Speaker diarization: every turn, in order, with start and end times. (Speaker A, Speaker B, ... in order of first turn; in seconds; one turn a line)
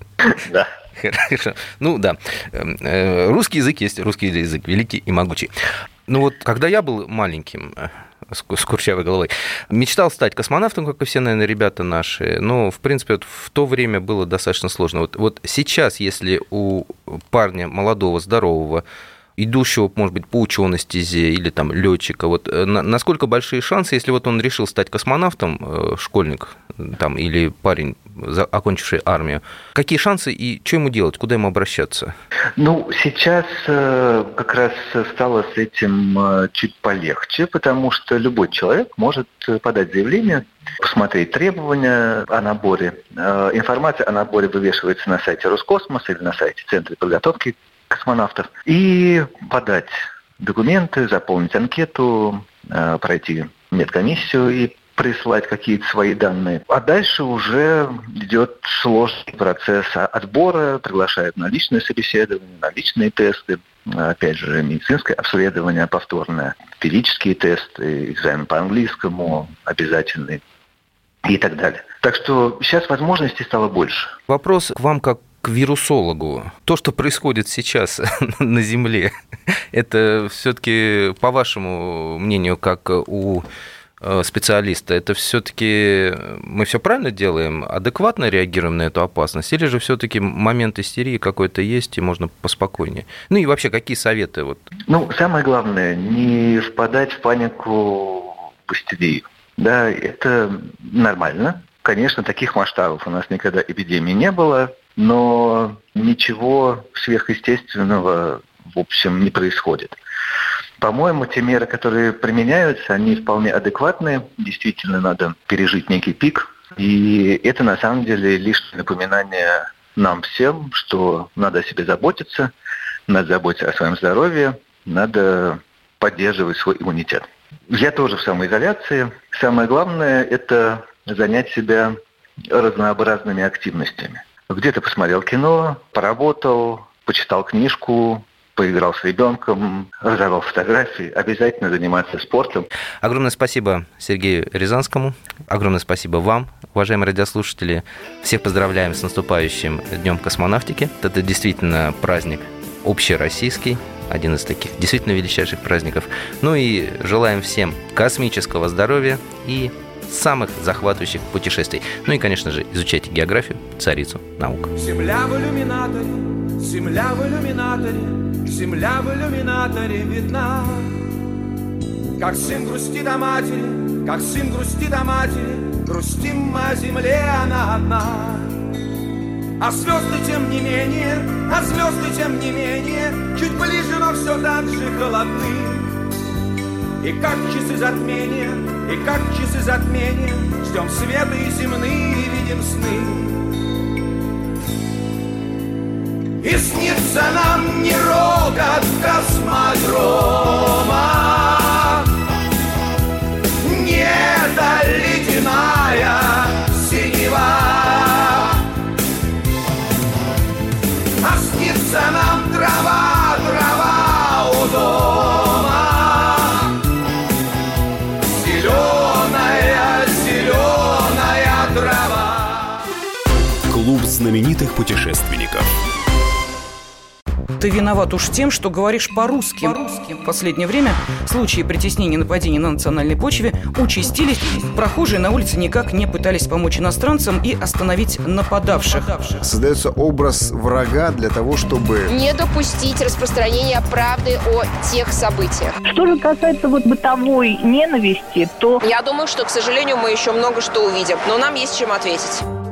Speaker A: 0.2-0.7
Speaker B: 1.0-5.5
Speaker B: 6.1-18.8
Speaker B: 19.4-32.1
Speaker A: 32.6-70.4
Speaker A: 71.2-74.1
Speaker B: 74.3-79.1
Speaker B: 79.7-83.5
Speaker B: 84.0-94.7
Speaker A: 94.9-110.0
Speaker A: 110.8-122.5
Speaker A: 123.1-131.9
Speaker A: 132.5-142.7
Speaker B: 143.0-164.7
Speaker C: 164.8-171.0
Speaker C: 172.2-178.5
Speaker C: 179.6-185.9
Speaker C: 187.0-193.5
Speaker C: 196.4-202.1
Speaker C: 203.6-208.6
Speaker C: 211.2-216.7
Speaker C: 218.3-222.7
Speaker D: 223.7-225.7
Speaker E: 227.6-239.5
Speaker F: 239.4-242.0
Speaker G: 242.1-245.8
Speaker H: 245.8-248.8
Speaker G: 248.8-252.4